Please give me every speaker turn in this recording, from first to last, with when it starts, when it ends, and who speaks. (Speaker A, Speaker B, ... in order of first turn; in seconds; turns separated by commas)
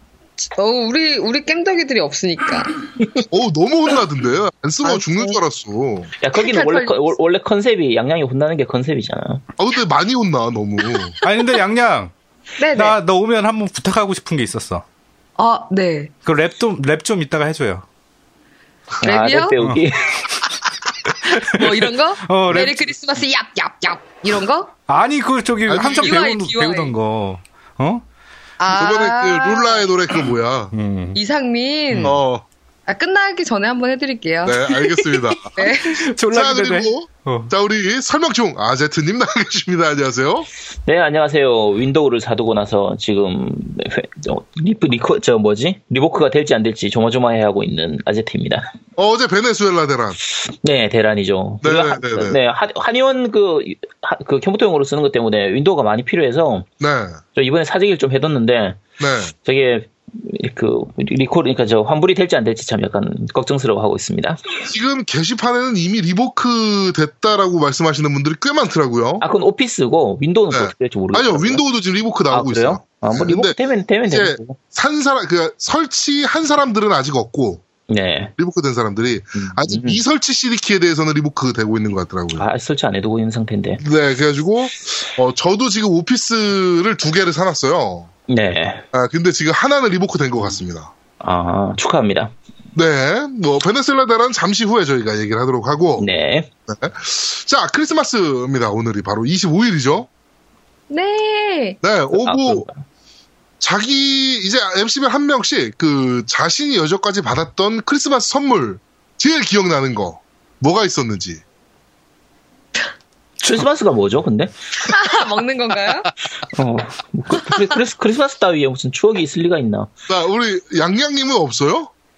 Speaker A: 0.4-3.2, Speaker B: 3.3-6.1, Speaker A: 4.8-5.4, Speaker C: 6.2-9.4, Speaker A: 6.4-7.0, Speaker B: 9.6-11.1, Speaker D: 11.2-12.1, Speaker A: 12.6-13.0, Speaker D: 12.7-14.8, Speaker A: 15.4-16.1, Speaker D: 16.2-17.9, Speaker A: 19.0-19.6, Speaker C: 19.0-20.2, Speaker D: 21.2-22.9, Speaker A: 21.3-24.7, Speaker D: 24.9-28.0, Speaker B: 25.7-26.2, Speaker A: 25.9-26.9, Speaker A: 28.6-29.9, Speaker B: 28.7-30.7, Speaker D: 30.7-31.2, Speaker A: 31.1-32.2, Speaker D: 31.9-32.2, Speaker B: 32.0-32.5, Speaker A: 32.9-36.1, Speaker B: 34.4-35.6, Speaker D: 35.6-37.5, Speaker B: 36.3-40.5, Speaker C: 40.9-48.7, Speaker B: 49.0-50.2, Speaker C: 50.4-56.7, Speaker B: 51.6-52.4, Speaker B: 56.8-57.2, Speaker C: 57.4-58.8, Speaker B: 59.0-59.3, Speaker C: 59.5-64.4, Speaker B: 64.7-69.2, Speaker C: 69.2-71.6, Speaker B: 70.5-73.6, Speaker C: 72.3-74.6, Speaker B: 74.1-77.6, Speaker C: 77.9-78.3, Speaker B: 78.4-82.5, Speaker C: 79.3-80.0, Speaker C: 82.4-83.8, Speaker B: 83.8-88.1, Speaker C: 88.3-88.8, Speaker B: 88.9-90.9, Speaker C: 91.2-92.3, Speaker B: 92.8-96.1, Speaker C: 96.0-96.5, Speaker B: 96.7-100.1, Speaker A: 100.9-101.8, Speaker B: 101.8-102.7, Speaker C: 102.2-102.8, Speaker B: 103.6-111.4, Speaker C: 113.4-114.5, Speaker A: 114.8-116.1, Speaker C: 116.5-119.9, Speaker B: 120.1-121.9